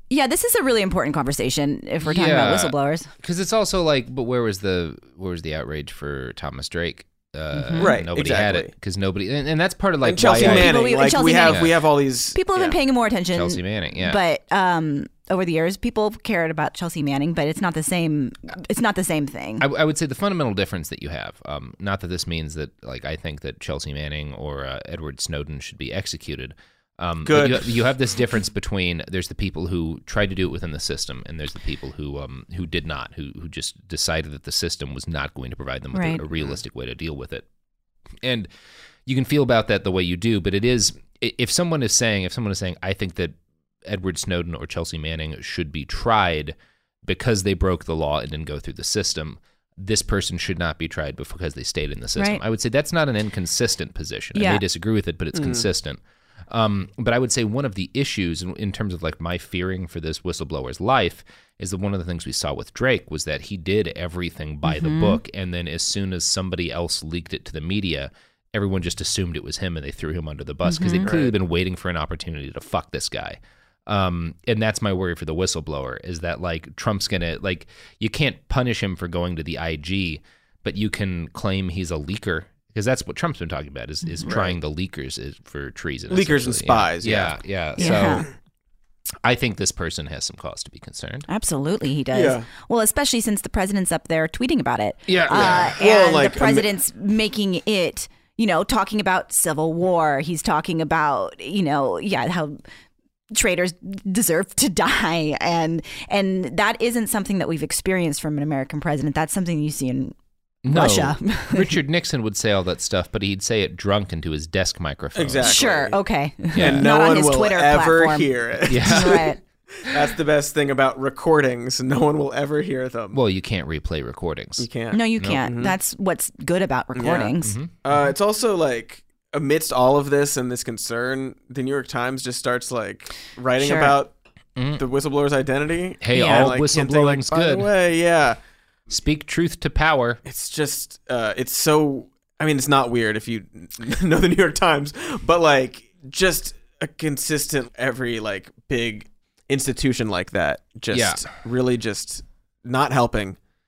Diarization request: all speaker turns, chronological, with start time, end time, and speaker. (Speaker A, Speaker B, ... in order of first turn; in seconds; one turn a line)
Speaker A: 0.1-3.1
Speaker B: 2.0-10.8
Speaker A: 7.5-8.0
Speaker C: 7.8-8.7
Speaker C: 10.0-12.8
Speaker A: 10.2-11.7
Speaker B: 11.5-11.8
Speaker A: 12.3-19.6
Speaker B: 13.3-14.2
Speaker B: 19.6-37.5
Speaker C: 27.2-27.8
Speaker A: 35.9-36.2
Speaker B: 38.2-38.5
Speaker B: 39.1-88.3
Speaker A: 54.4-54.6
Speaker C: 55.4-55.7
Speaker A: 64.7-65.2
Speaker A: 70.7-71.1
Speaker C: 71.0-71.3
Speaker C: 84.2-84.6
Speaker C: 86.1-88.2
Speaker A: 87.8-88.3
Speaker B: 89.2-91.3
Speaker A: 91.3-102.6
Speaker C: 92.1-92.5
Speaker B: 95.1-95.8
Speaker C: 95.3-96.7
Speaker A: 103.3-110.2
Speaker B: 110.6-115.6
Speaker A: 110.7-111.7
Speaker C: 115.2-116.0
Speaker A: 115.4-119.4
Speaker B: 116.5-116.8
Speaker C: 116.6-123.2
Speaker B: 118.7-119.3
Speaker B: 123.1-125.4
Speaker C: 124.6-125.8
Speaker A: 124.9-127.5
Speaker C: 127.0-134.1
Speaker B: 127.4-127.8
Speaker A: 133.6-134.0
Speaker B: 134.6-134.8
Speaker C: 134.8-138.4
Speaker B: 136.0-137.7
Speaker A: 136.1-136.6
Speaker B: 138.9-140.2
Speaker C: 140.2-153.4
Speaker B: 150.9-151.3